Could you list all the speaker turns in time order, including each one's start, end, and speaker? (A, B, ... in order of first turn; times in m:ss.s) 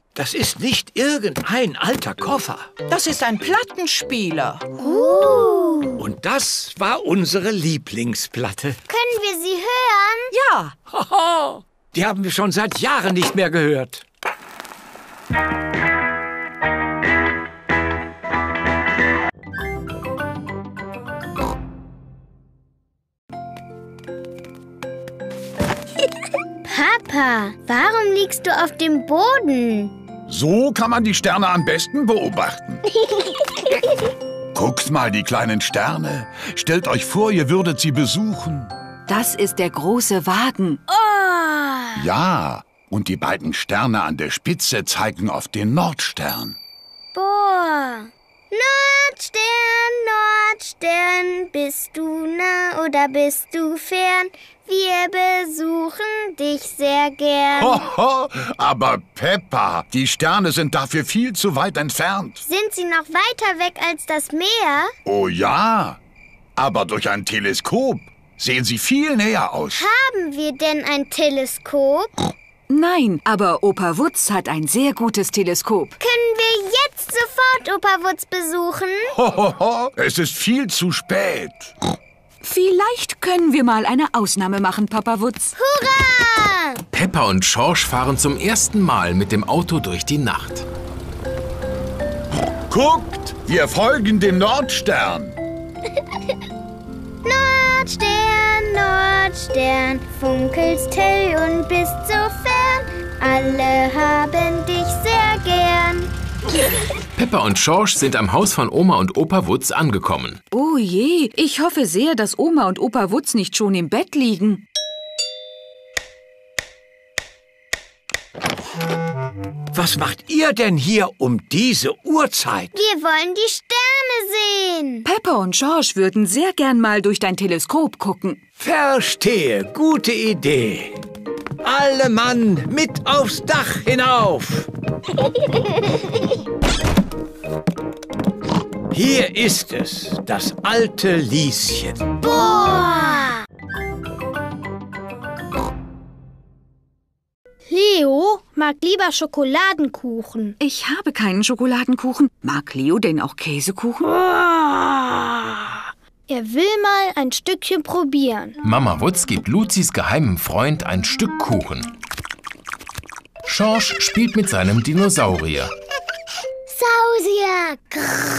0:00.1-0:02.7 A
0:02.9-0:04.8 B
0:04.8-0:06.0 C
0:06.0-0:08.8 A
0:08.9-0:10.3 C
0:10.3-0:10.7 B
0:10.9-0:14.0 A
0:26.6-0:29.9 C
0:30.3-0:32.8 D
0:34.5-0:38.7 D
0:39.1-0:40.8 E
0:40.9-0:42.0 C
0:42.0-0:46.6 D
0:47.1-0:57.8 C
0:57.6-1:02.4 D
1:02.4-1:04.9 C
1:05.0-1:06.0 D
1:06.6-1:09.8 D
1:09.7-1:12.1 C
1:12.7-1:16.0 E
1:16.0-1:19.1 C
1:19.1-1:21.7 D
1:22.4-1:25.5 E
1:25.6-1:26.8 C
1:26.9-1:30.6 F
1:32.7-1:35.4 D
1:37.2-1:46.1 C
1:47.2-1:50.4 F
1:50.5-1:54.6 E
1:59.7-2:02.7 A
2:02.7-2:05.0 C
2:05.0-2:08.4 E
2:08.6-2:11.0 A
2:11.6-2:14.7 A
2:18.9-2:22.0 A
2:22.2-2:23.4 C
2:27.7-2:30.6 G
2:30.6-2:34.2 E
2:34.2-2:38.6 G
2:38.6-2:41.9 F
2:43.4-2:45.7 F
2:46.7-2:47.9 C